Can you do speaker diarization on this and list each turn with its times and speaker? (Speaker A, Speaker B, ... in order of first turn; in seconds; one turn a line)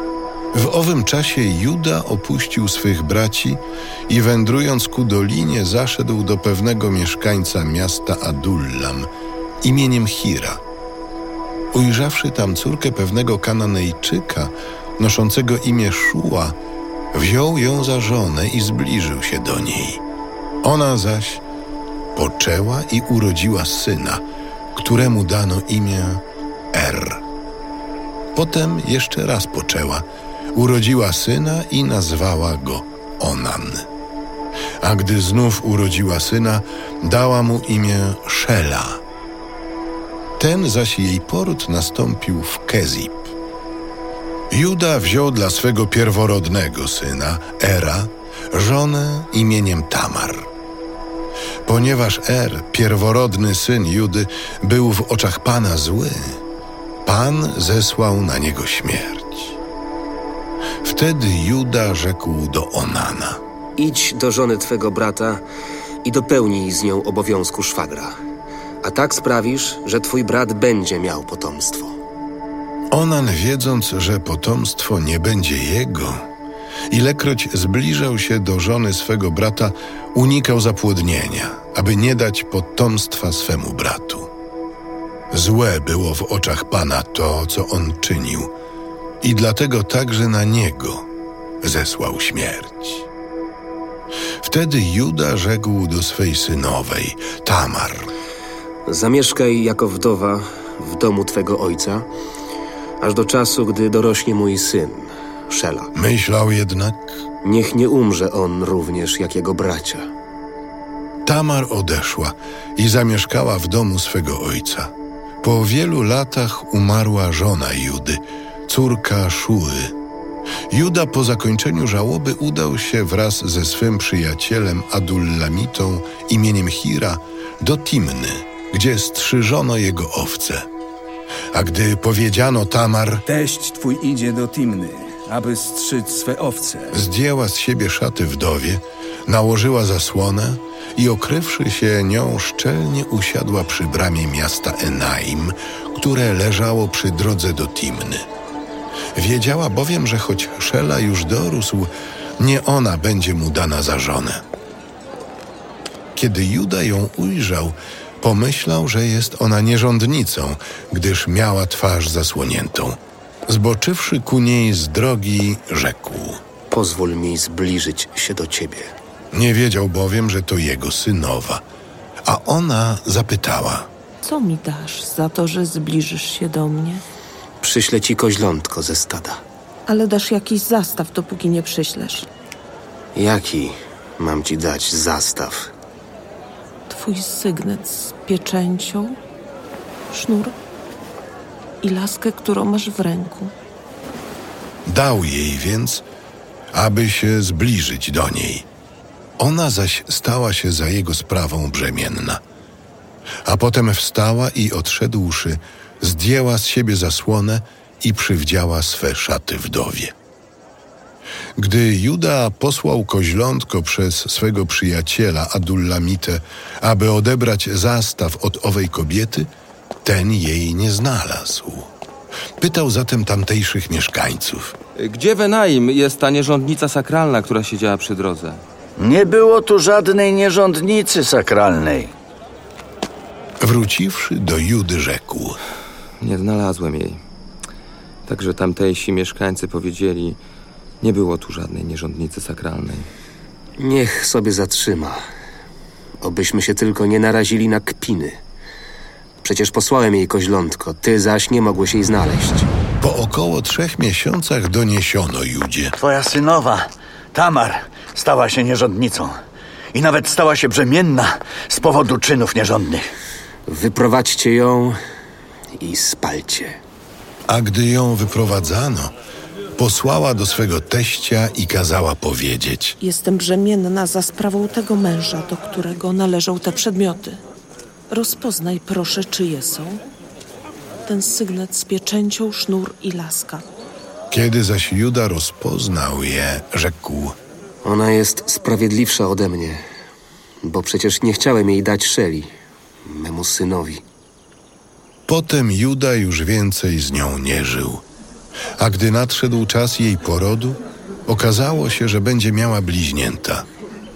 Speaker A: 0.5-9.1
Speaker A: 9.6-10.6
Speaker A: 11.7-16.6
Speaker A: 17.1-20.0
Speaker A: 20.6-21.4
Speaker A: 22.1-24.2
Speaker A: 24.8-27.2
Speaker A: 28.4-33.9
Speaker A: 34.8-39.0
Speaker A: 40.4-43.3
Speaker A: 44.5-50.5
Speaker A: 51.7-56.4
Speaker A: 57.1-59.6
Speaker A: 60.8-63.4
Speaker B: 63.8-65.4
Speaker B: 66.0-68.2
Speaker B: 68.8-72.0
Speaker A: 72.9-76.2
Speaker A: 76.9-84.3
Speaker A: 85.3-88.5
Speaker A: 89.2-91.1
Speaker A: 91.6-93.1
Speaker A: 94.4-98.1
Speaker B: 98.9-102.1
Speaker B: 103.0-105.9
Speaker A: 105.9-107.1
Speaker B: 107.4-110.1
Speaker A: 111.3-114.9
Speaker A: 115.4-119.9
Speaker A: 120.7-130.7
Speaker A: 131.5-133.2
Speaker C: 133.3-137.0
Speaker A: 136.9-148.2
Speaker A: 149.2-154.4
Speaker A: 156.2-166.4
Speaker B: 166.7-168.9
Speaker A: 169.3-171.6
Speaker A: 172.2-173.9
Speaker D: 174.2-177.0
Speaker B: 177.6-179.4
Speaker D: 179.9-182.3
Speaker B: 183.2-185.7
Speaker D: 186.9-189.2
Speaker D: 190.1-190.6
Speaker D: 191.8-193.5
Speaker A: 194.9-196.1
Speaker A: 196.7-198.7
Speaker A: 199.4-202.4
Speaker A: 203.4-210.1
Speaker A: 211.6-219.5
Speaker A: 220.0-221.9
Speaker A: 222.6-224.8
Speaker E: 225.0-228.6
Speaker F: 229.0-232.1
Speaker A: 233.6-235.6
Speaker E: 236.2-237.2
Speaker E: 238.3-240.4
Speaker E: 241.0-243.1
Speaker B: 243.8-245.2
Speaker B: 246.2-248.4
Speaker B: 249.4-252.7
Speaker A: 253.0-255.9
Speaker F: 256.0-259.4
Speaker F: 259.9-263.1
Speaker B: 263.7-265.0
Speaker B: 265.8-266.8
Speaker A: 267.5-269.1
Speaker A: 269.8-273.0
Speaker D: 273.0-277.4
Speaker D: 278.1-280.0
Speaker D: 281.1-283.7
Speaker A: 284.3-287.4
Speaker B: 287.8-289.8
Speaker B: 290.6-292.5
Speaker B: 293.1-294.0
Speaker A: 295.3-298.0
Speaker A: 298.8-303.7